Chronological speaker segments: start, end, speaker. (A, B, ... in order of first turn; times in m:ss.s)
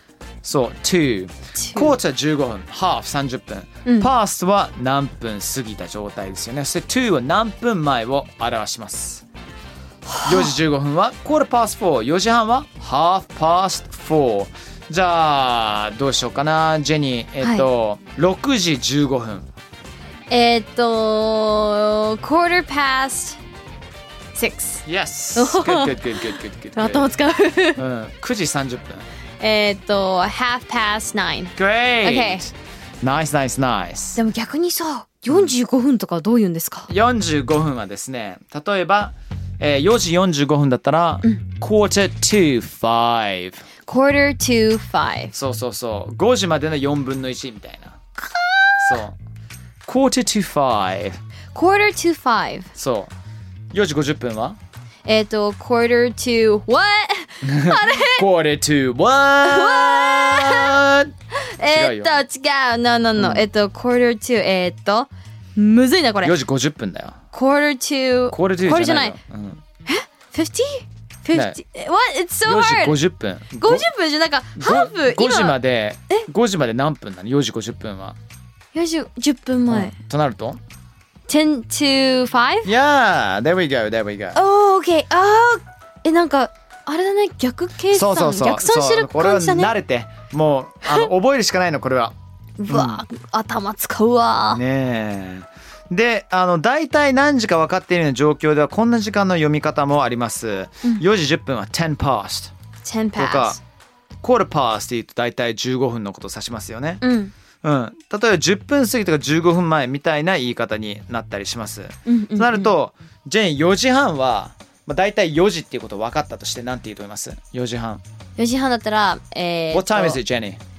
0:00.4-0:09.2 A
0:01.6-0:02.0 B
0:03.8-0:04.1 B
0:10.1-0:10.6 B
0:10.2-0:19.5 A
0:17.4-0:17.7 B
0:20.3-0:23.4 B
0:24.4-0:24.8 B
0:24.8-0:27.1 A
0:25.4-0:27.8 B
0:27.8-0:29.1 A
0:29.4-0:32.5 B
0:31.6-0:34.2 A
0:34.2-0:36.9 B
0:36.9-0:43.6 A
0:43.9-0:45.3 B
0:45.3-0:48.0 A
0:48.2-0:49.0 B
0:48.8-0:49.2 A
0:49.9-0:51.2 A
0:51.5-0:52.7 B
0:52.8-0:53.1 A
0:53.7-0:54.6 A
0:55.0-0:58.3 B
0:57.4-1:01.1 A
0:59.4-1:00.8 B
1:01.3-1:06.4 B
1:01.7-1:02.2 A
1:03.2-1:03.5 A
1:06.2-1:07.2 A
1:07.3-1:09.2 B
1:08.3-1:09.6 A
1:09.9-1:13.0 B
1:12.4-1:13.9 A
1:13.6-1:15.6 B
1:14.6-1:18.2 A
1:18.7-1:19.9 B
1:19.7-1:20.6 A
1:21.3-1:22.7 B
1:22.6-1:24.4 A
1:24.3-1:29.7 B
1:27.9-1:32.1 A
1:32.6-1:34.6 B
1:32.7-1:33.0 A
1:34.5-1:42.5 A
1:42.8-1:43.6 B
1:43.2-1:43.6 A
1:44.2-1:47.0 A
1:47.0-1:47.3 B
1:47.6-1:58.0 A
1:52.1-1:52.7 B
1:58.4-2:00.2 B
1:59.7-2:00.6 A